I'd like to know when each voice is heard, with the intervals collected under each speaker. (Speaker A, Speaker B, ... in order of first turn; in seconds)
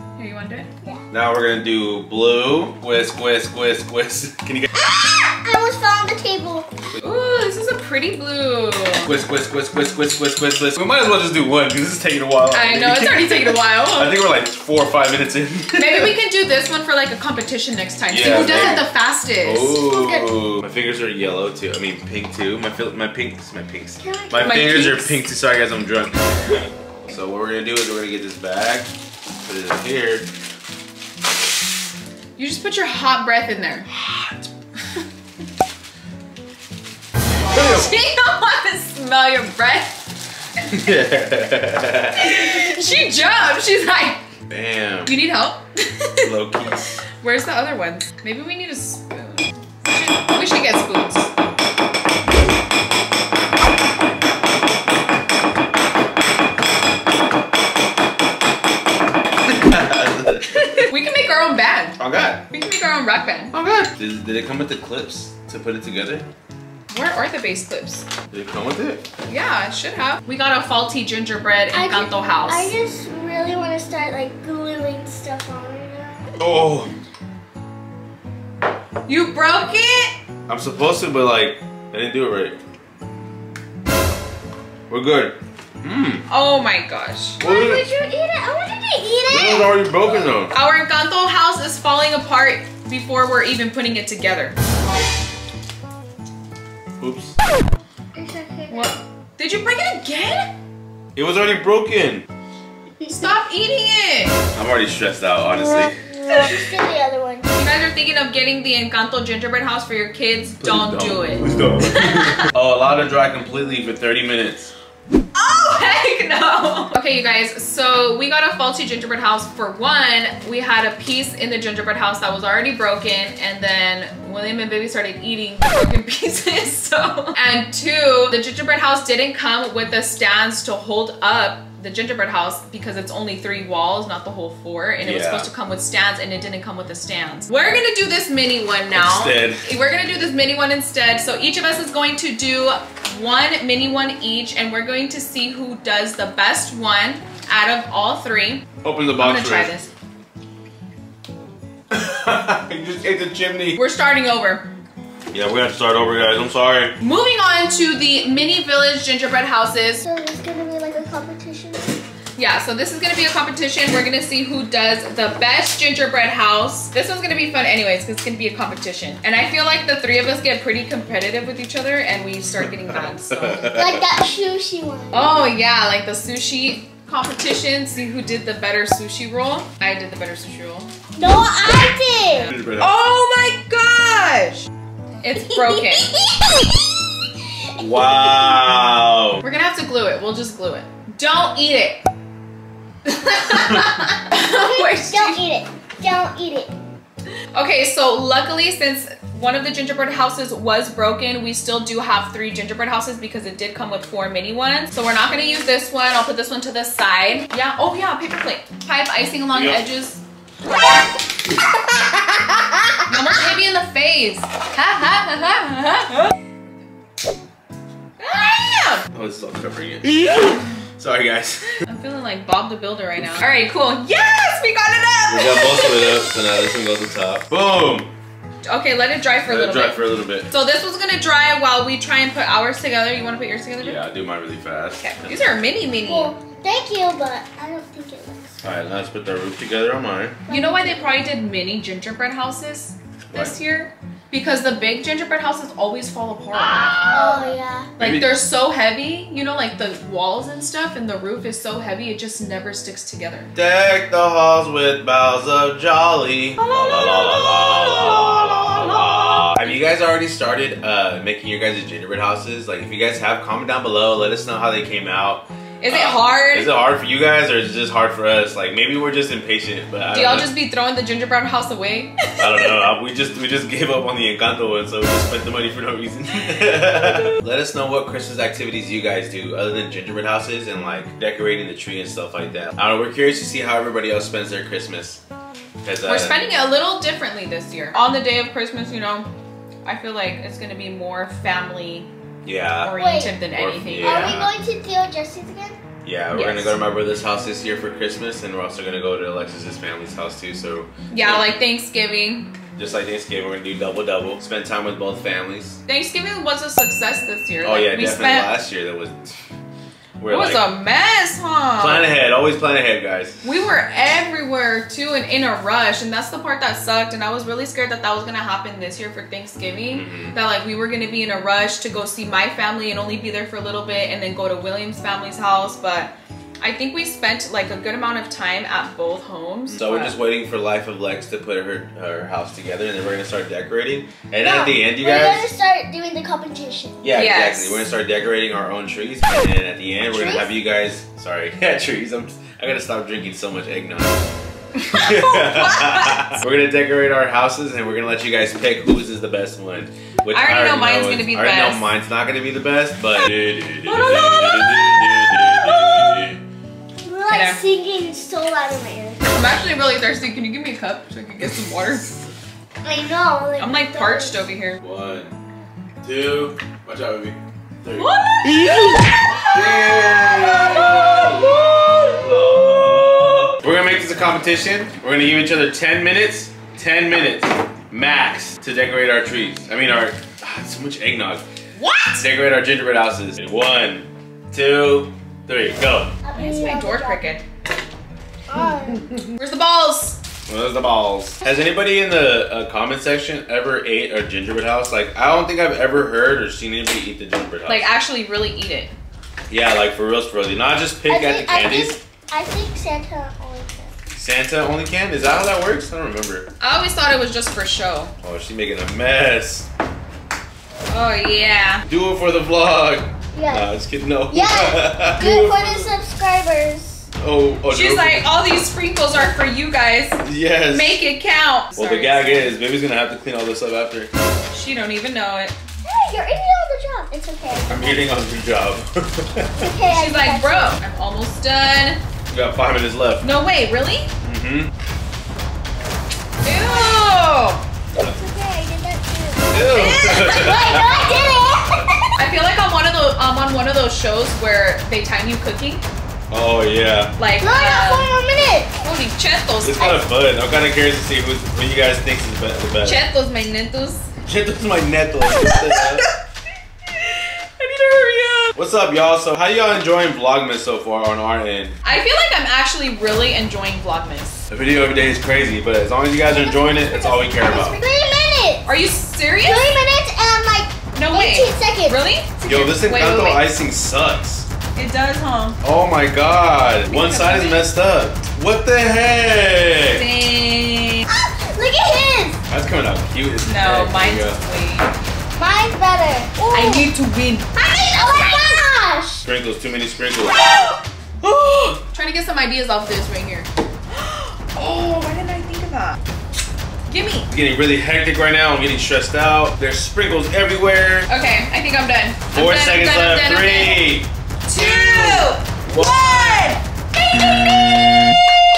Speaker A: 0.2-0.7, 7.0-9.1, 12.5-14.1, 15.7-20.2, 24.4-25.2, 32.4-33.9, 37.4-40.1, 42.1-44.2, 45.0-46.3, 47.2-51.3, 60.5-63.5, 66.9-68.0, 69.3-72.7, 79.1-80.1, 86.3-87.4, 90.5-94.6, 98.7-100.5, 103.1-104.4, 107.5-112.5, 115.3-149.9, 153.8-154.7, 157.0-160.0, 162.3-173.9, 175.1-180.9, 182.3-184.7, 185.2-186.1, 189.4-192.0, 193.0-195.4, 197.5-210.2, 213.1-216.3, 218.2-219.0, 221.8-226.3, 228.6-234.1, 235.0-236.3, 240.5-247.2, 248.0-253.5, 256.6-259.5, 265.8-266.7, 270.1-272.7, 276.8-277.4, 286.1-289.3, 289.8-292.1, 292.8-294.4, 296.3-296.8, 301.1-302.5, 305.9-308.5, 310.3-312.1, 313.4-330.2, 337.1-337.8, 344.8-346.4, 350.3-351.9, 353.8-354.9, 357.3-357.6, 359.3-362.2, 363.6-364.8, 367.9-372.1, 381.7-382.2, 386.3-387.4, 389.3-390.2, 397.7-398.9, 406.6-408.1, 410.9-411.8, 417.7-422.5, 424.5-425.5, 429.9-432.0, 433.2-434.1, 436.4-437.6, 439.5-440.8, 442.2-445.8, 447.2-448.1, 448.8-449.9, 452.8-454.1, 457.6-458.5, 461.8-464.4, 468.6-469.8, 470.9-473.5, 474.7-475.6, 476.9-477.7, 479.9-481.1, 483.4-485.0, 486.5-487.5, 491.9-496.0, 496.9-497.3, 501.1-503.9, 504.4-506.6
Speaker B: 1.1-4.7, 9.0-16.1, 18.1-18.9, 19.4-28.9, 29.4-30.3, 33.9-34.5, 37.5-38.0, 40.7-42.5, 44.5-45.2, 46.2-46.9, 59.5-60.8, 62.0-62.4, 63.5-66.2, 68.3-69.0, 76.4-76.9, 80.5-82.6, 84.9-86.2, 87.4-87.8, 89.3-90.5, 97.0-97.3, 101.1-102.2, 104.5-106.0, 110.6-114.7, 135.0-135.5, 138.9-139.6, 148.8-149.7, 151.9-153.8, 155.3-156.9, 173.4-174.0, 182.5-182.9, 187.8-189.4, 209.5-209.8, 219.1-221.8, 225.3-228.1, 229.5-230.5, 233.8-235.5, 238.6-240.4, 243.3-243.5, 246.5-247.4, 248.0-248.3, 253.5-270.5, 272.4-285.2, 285.8-286.4, 292.4-292.9, 293.5-294.5, 296.0-301.5, 302.8-305.8, 307.6-309.3, 310.2-310.6, 311.8-313.4, 319.9-320.4, 329.7-335.5, 337.0-344.2, 344.9-356.4, 364.8-365.3, 366.0-368.1, 369.5-381.4, 382.1-386.1, 390.5-397.9, 399.5-402.0, 404.1-406.5, 408.2-409.7, 411.9-415.9, 417.2-418.3, 420.2-421.0, 421.8-424.1, 427.7-429.7, 432.3-433.3, 434.2-434.7, 439.5-441.5, 446.3-447.1, 449.6-453.0, 454.2-456.0, 458.5-461.8, 464.5-467.8, 472.4-474.5, 475.6-480.0, 482.5-484.4, 489.2-490.5, 491.2-491.8, 497.3-501.1, 502.3-506.5, 507.1-508.2
Speaker C: 4.8-6.7, 18.2-18.8, 24.0-24.6, 71.7-76.3, 87.4-90.1, 98.1-98.9, 103.0-103.3, 106.3-107.6, 160.0-162.0, 173.7-175.5, 181.2-182.5, 185.3-186.7, 187.8-188.6, 194.3-196.7, 236.0-238.6, 240.5-241.2, 247.1-247.9, 256.8-257.9, 292.9-293.4, 294.0-295.8, 334.4-337.0, 340.1-340.5, 357.0-359.4, 362.8-364.4, 386.2-387.2, 388.5-389.1, 401.1-403.9, 413.3-413.7, 414.3-417.1, 425.9-428.1, 429.6-430.8, 436.5-437.0, 437.9-442.0, 447.4-448.8, 466.3-468.7, 469.4-472.0, 481.1-482.4, 485.4-486.9, 487.6-489.2